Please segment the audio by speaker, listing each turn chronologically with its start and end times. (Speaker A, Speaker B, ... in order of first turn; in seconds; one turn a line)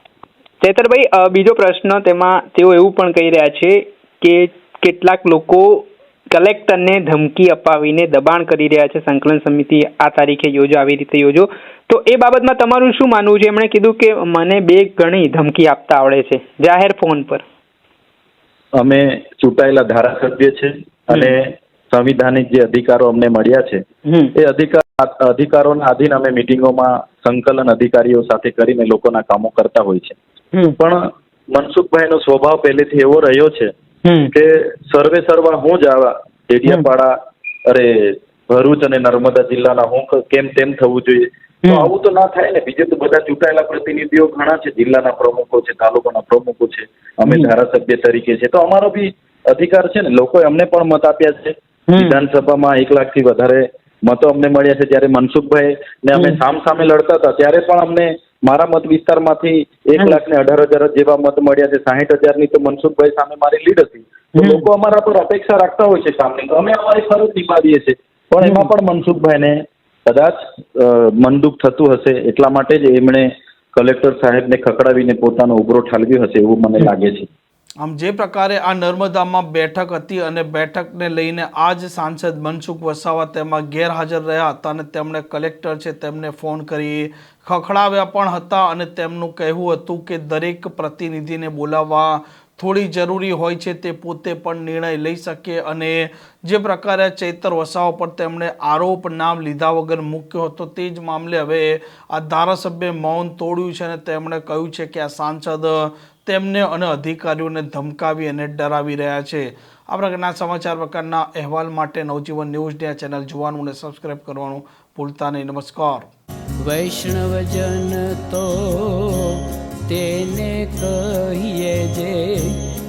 Speaker A: 0.6-17.4
Speaker B: 18.8-23.8
Speaker A: 24.1-24.3
Speaker B: 24.3-30.2
Speaker B: 30.8-33.7
Speaker A: 34.0-34.3
Speaker B: 34.3-37.1
Speaker B: 37.7-77.3
Speaker A: 51.9-52.2
Speaker A: 56.1-56.4
Speaker A: 64.4-64.7
Speaker A: 68.4-68.7
Speaker C: 77.8-116.1
Speaker D: 116.6-122.6